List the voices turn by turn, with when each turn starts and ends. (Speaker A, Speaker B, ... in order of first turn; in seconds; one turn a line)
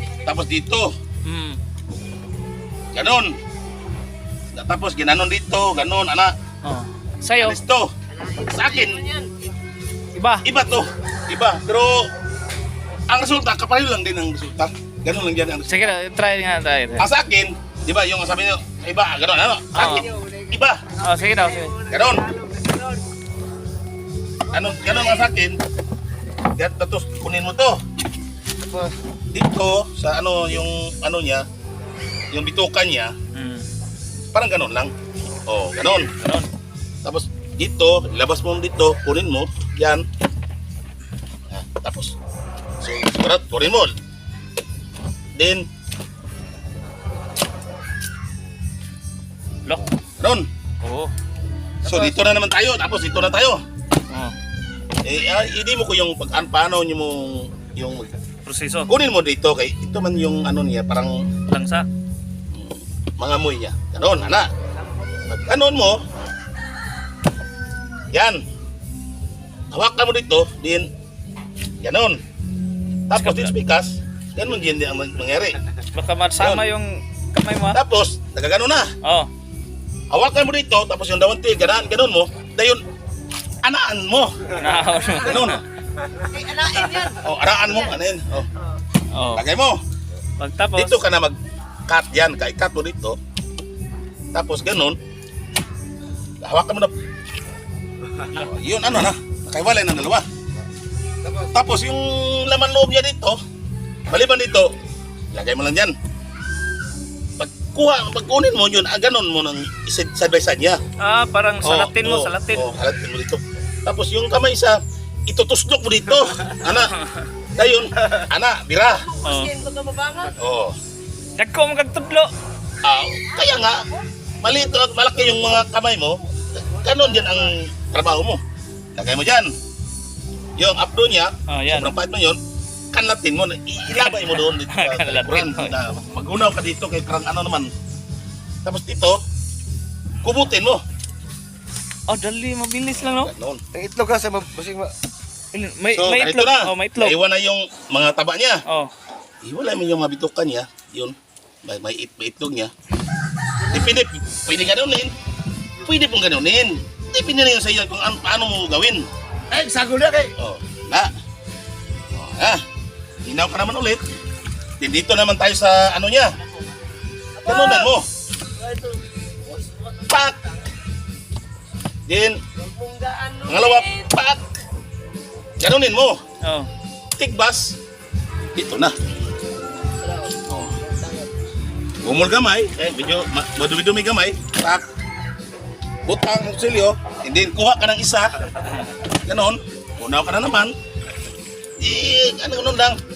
Speaker A: 0.2-0.9
Speaker B: 1.2-1.6
Speaker A: 2.9-3.4
Speaker A: 4.5-6.3
Speaker B: 6.6-7.6
Speaker A: 7.4-9.1
Speaker C: 8.1-9.3
Speaker B: 10.1-10.4
Speaker A: 10.4-12.1
Speaker A: 13.1-15.9
Speaker B: 15.7-17.1
Speaker A: 17.0-20.9
Speaker B: 19.7-20.1
Speaker C: 19.8-23.1
Speaker B: 21.0-21.8
Speaker A: 21.9-22.3
Speaker A: 24.5-25.6
Speaker C: 24.9-25.2
Speaker A: 26.6-27.8
Speaker D: 28.6-28.9
Speaker A: 29.3-31.4
Speaker A: 32.3-33.1
Speaker B: 33.3-33.7
Speaker A: 34.3-34.9
Speaker A: 35.5-36.1
Speaker B: 36.2-36.5
Speaker A: 37.0-40.0
Speaker A: 41.5-42.1
Speaker A: 42.8-43.9
Speaker A: 45.4-45.7
Speaker A: 50.2-50.5
Speaker B: 50.8-51.1
Speaker A: 51.8-53.6
Speaker A: 55.0-58.1
Speaker B: 58.5-58.9
Speaker A: 58.9-61.3
Speaker B: 61.5-61.9
Speaker A: 62.5-64.5
Speaker A: 65.2-66.0
Speaker A: 68.1-68.4
Speaker A: 69.7-70.9
Speaker A: 71.8-72.2
Speaker A: 73.1-75.6
Speaker B: 73.2-73.5
Speaker B: 75.9-77.8
Speaker A: 77.7-78.9
Speaker B: 79.0-79.3
Speaker A: 80.1-82.8
Speaker A: 83.6-84.5
Speaker B: 84.5-85.6
Speaker A: 85.2-85.6
Speaker C: 86.3-87.9
Speaker A: 87.2-88.5
Speaker B: 89.1-89.5
Speaker A: 89.3-89.8
Speaker B: 90.4-90.9
Speaker A: 90.7-93.2
Speaker A: 94.3-95.0
Speaker A: 96.4-96.9
Speaker A: 98.2-100.2
Speaker A: 101.4-103.4
Speaker A: 104.1-104.7
Speaker A: 105.3-105.9
Speaker A: 107.4-110.8
Speaker B: 111.0-112.7
Speaker A: 111.6-117.0
Speaker B: 116.7-117.2
Speaker A: 117.5-119.1
Speaker C: 119.0-120.4
Speaker B: 119.2-119.5
Speaker A: 120.4-120.8
Speaker B: 121.4-122.3
Speaker A: 122.8-123.9
Speaker A: 124.4-128.4
Speaker C: 126.9-127.3
Speaker A: 128.9-129.5
Speaker A: 130.6-132.4
Speaker B: 131.5-131.9
Speaker A: 132.9-137.7
Speaker B: 133.9-135.8
Speaker A: 138.6-139.2
Speaker A: 140.2-140.8
Speaker B: 142.1-143.3
Speaker A: 143.2-143.6
Speaker D: 143.7-144.9
Speaker B: 145.5-147.2
Speaker A: 145.9-148.6
Speaker B: 148.7-148.9
Speaker A: 149.4-152.7
Speaker A: 153.7-155.1
Speaker A: 155.8-159.1
Speaker D: 159.5-160.3
Speaker A: 160.3-161.1
Speaker A: 162.1-162.6
Speaker A: 163.2-164.0
Speaker A: 164.8-166.3
Speaker C: 167.4-167.9
Speaker A: 167.4-168.1
Speaker C: 168.6-170.5
Speaker A: 170.1-170.4
Speaker A: 172.1-172.4
Speaker C: 172.6-174.1
Speaker A: 173.5-174.5
Speaker A: 175.6-176.2
Speaker B: 176.4-176.7
Speaker A: 177.2-177.8
Speaker A: 178.5-178.9
Speaker C: 180.0-181.3
Speaker A: 180.5-180.8
Speaker A: 182.0-184.8
Speaker A: 186.1-188.3
Speaker A: 189.2-190.7
Speaker A: 191.8-193.0